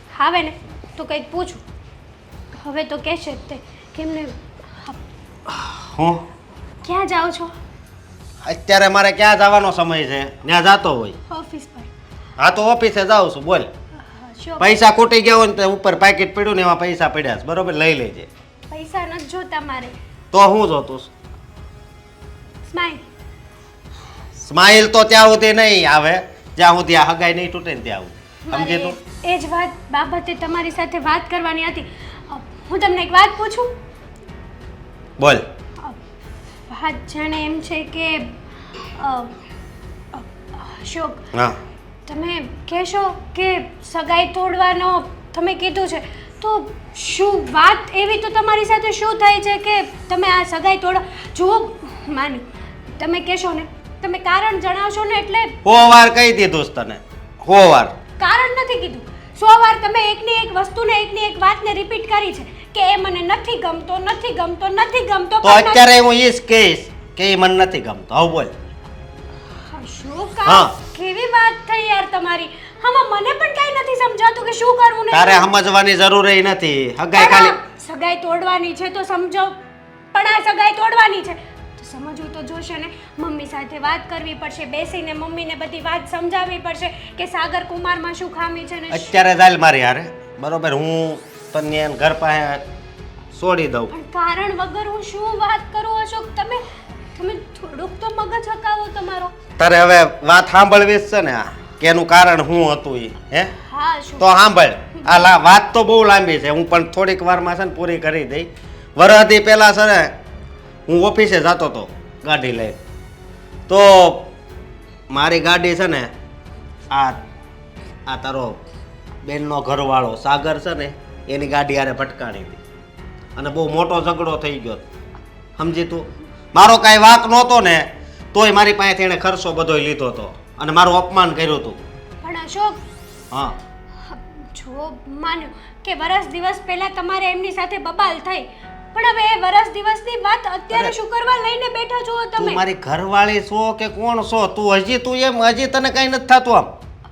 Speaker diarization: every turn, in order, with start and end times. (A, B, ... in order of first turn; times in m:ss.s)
0:00.1-0:01.6 A
0:02.5-0:05.0 A
0:05.5-0:06.2 B
0:06.8-0:07.5 A
0:08.4-0:11.2 B
0:11.3-0:11.9 A
0:12.4-0:13.7 B
0:14.0-0:14.7 A
0:14.6-0:18.3 B
0:18.7-0:19.9 A
0:20.3-0:21.1 B
0:22.7-0:23.0 A
0:24.4-0:29.0 B
0:28.4-0:33.7 A
0:35.2-0:35.5 B
0:36.7-0:38.3 A
0:38.9-0:39.4 A
0:40.1-0:41.3 A
0:41.3-0:41.6 B
0:42.0-0:55.6 A
0:55.6-0:57.9 B
0:58.2-1:05.9 A
1:05.4-1:08.5 B
1:09.7-1:15.5 A
1:10.4-1:10.7 B
1:15.1-1:17.6 B
1:17.1-1:19.6 A
1:20.1-1:29.1 A
1:28.9-1:32.7 B
1:33.3-1:33.9 B
1:33.9-1:36.6 A
1:37.1-1:39.3 A
1:39.6-1:43.5 B
1:43.6-1:44.3 A
1:44.2-1:50.2 B
1:50.9-1:52.8 B
1:53.7-1:54.3 B
1:55.1-1:56.1 B
1:56.9-1:57.2 B
1:58.1-1:58.6 B
1:59.2-2:02.6 B
2:03.4-2:04.8 B
2:05.6-2:11.8 B
2:12.2-2:12.8 A
2:13.3-2:13.6 B
2:14.0-2:22.6 A
2:22.4-2:26.7 B